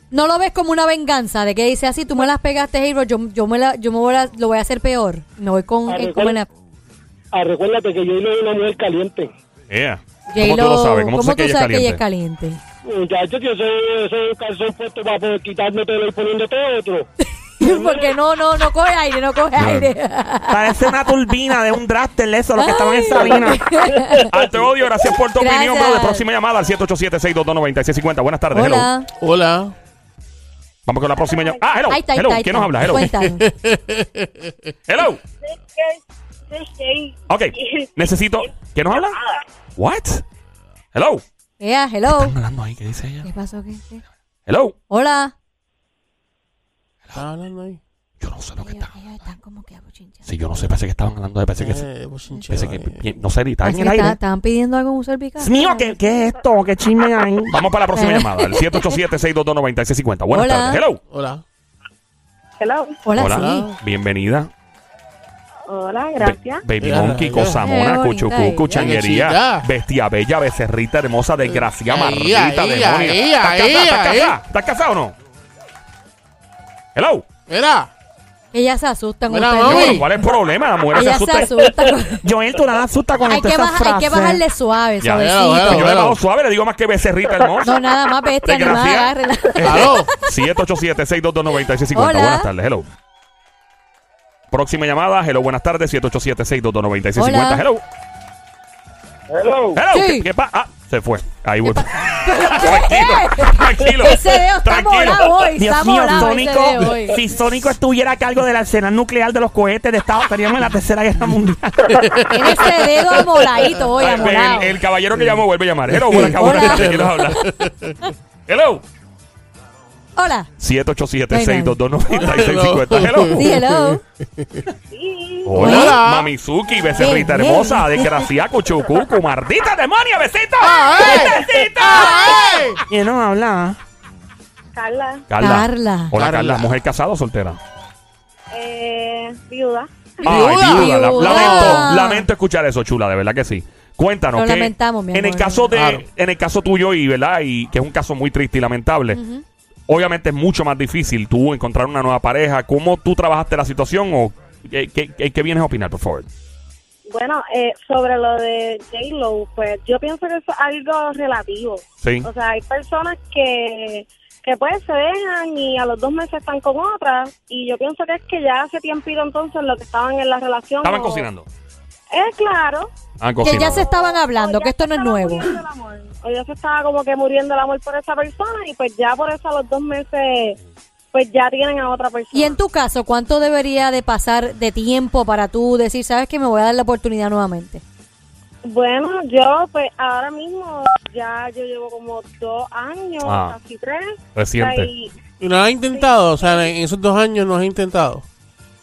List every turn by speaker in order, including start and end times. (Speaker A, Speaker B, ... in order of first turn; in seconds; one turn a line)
Speaker A: 0.1-6.5
Speaker B: 5.9-6.4
Speaker B: 7.3-9.3
Speaker C: 9.7-12.0
Speaker A: 10.3-12.6
Speaker B: 12.8-17.1
Speaker A: 17.4-21.1
Speaker B: 17.6-18.1
Speaker C: 19.6-19.9
Speaker D: 20.5-23.7
Speaker A: 22.6-24.3
Speaker C: 24.3-28.9
Speaker A: 25.4-26.2
Speaker A: 28.5-29.1
Speaker E: 29.2-29.7
Speaker C: 30.9-33.1
Speaker F: 31.2-31.6
Speaker A: 31.9-33.5
Speaker E: 33.0-34.7
Speaker C: 34.9-35.2
Speaker F: 35.5-36.0
Speaker F: 36.5-37.9
Speaker C: 37.3-39.2
Speaker F: 38.9-39.4
Speaker C: 39.8-40.2
Speaker C: 40.9-41.2
Speaker A: 41.6-42.4
Speaker C: 42.1-43.3
Speaker A: 43.2-44.0
Speaker C: 44.5-44.7
Speaker A: 44.9-45.3
Speaker E: 47.1-47.8
Speaker C: 48.2-48.9
Speaker A: 48.6-50.3
Speaker C: 50.2-51.8
Speaker E: 51.6-53.0
Speaker C: 52.5-53.9
Speaker D: 53.6-54.2
Speaker A: 53.6-55.6
Speaker D: 55.4-57.5
Speaker C: 57.5-61.0
Speaker A: 57.9-58.8
Speaker A: 60.3-60.8
Speaker E: 61.1-61.4
Speaker F: 62.6-63.0
Speaker A: 63.0-63.7
Speaker C: 63.2-64.5
Speaker E: 63.2-63.8
Speaker F: 65.7-66.6
Speaker C: 66.2-75.1
Speaker E: 66.8-67.6
Speaker A: 67.6-68.9
Speaker E: 68.7-69.7
Speaker E: 71.4-74.4
Speaker C: 76.9-77.3
Speaker E: 77.5-77.9
Speaker A: 78.5-80.0
Speaker E: 79.3-80.0
Speaker C: 79.6-81.5
Speaker A: 80.9-82.2
Speaker D: 82.2-84.4
Speaker A: 83.3-85.9
Speaker C: 85.0-87.8
Speaker E: 85.2-86.2
Speaker A: 87.6-90.3
Speaker C: 88.4-92.9
Speaker E: 89.6-90.1
Speaker A: 91.9-92.5
Speaker C: 94.5-97.8
Speaker A: 97.2-97.6
Speaker C: 99.7-105.4
Speaker A: 99.9-100.3
Speaker A: 101.6-107.2
Speaker D: 105.6-112.1
Speaker E: 112.0-113.8
Speaker A: 112.3-114.7
Speaker C: 114.0-117.5
Speaker E: 115.2-117.9
Speaker A: 116.1-117.4
Speaker C: 118.5-118.8
Speaker A: 120.2-120.5
Speaker C: 120.6-123.5
Speaker A: 121.3-121.8
Speaker E: 122.1-124.7
Speaker A: 123.3-124.0
Speaker F: 124.9-125.6
Speaker C: 125.5-132.6
Speaker E: 125.5-126.3
Speaker A: 125.6-126.0
Speaker A: 127.0-128.2
Speaker E: 130.6-132.8
Speaker D: 132.9-133.8
Speaker F: 134.7-135.2
Speaker C: 135.3-137.6
Speaker A: 135.4-136.1
Speaker E: 136.1-136.7
Speaker F: 138.5-140.4
Speaker C: 140.2-149.2
Speaker E: 140.2-141.9
Speaker A: 140.3-142.2
Speaker A: 144.3-145.7
Speaker E: 145.7-146.0
Speaker A: 149.1-149.4
Speaker C: 149.9-156.3
Speaker F: 157.1-171.3
Speaker C: 162.0-162.3
Speaker C: 170.8-171.5
Speaker F: 172.1-172.9
Speaker C: 173.2-173.8
Speaker A: 173.4-175.5
Speaker F: 173.4-180.6
Speaker F: 181.1-182.6
Speaker A: 182.3-187.8
Speaker F: 188.6-195.1
Speaker C: 193.2-193.6
Speaker C: 194.3-194.9
Speaker E: 195.4-198.2
Speaker F: 195.8-196.7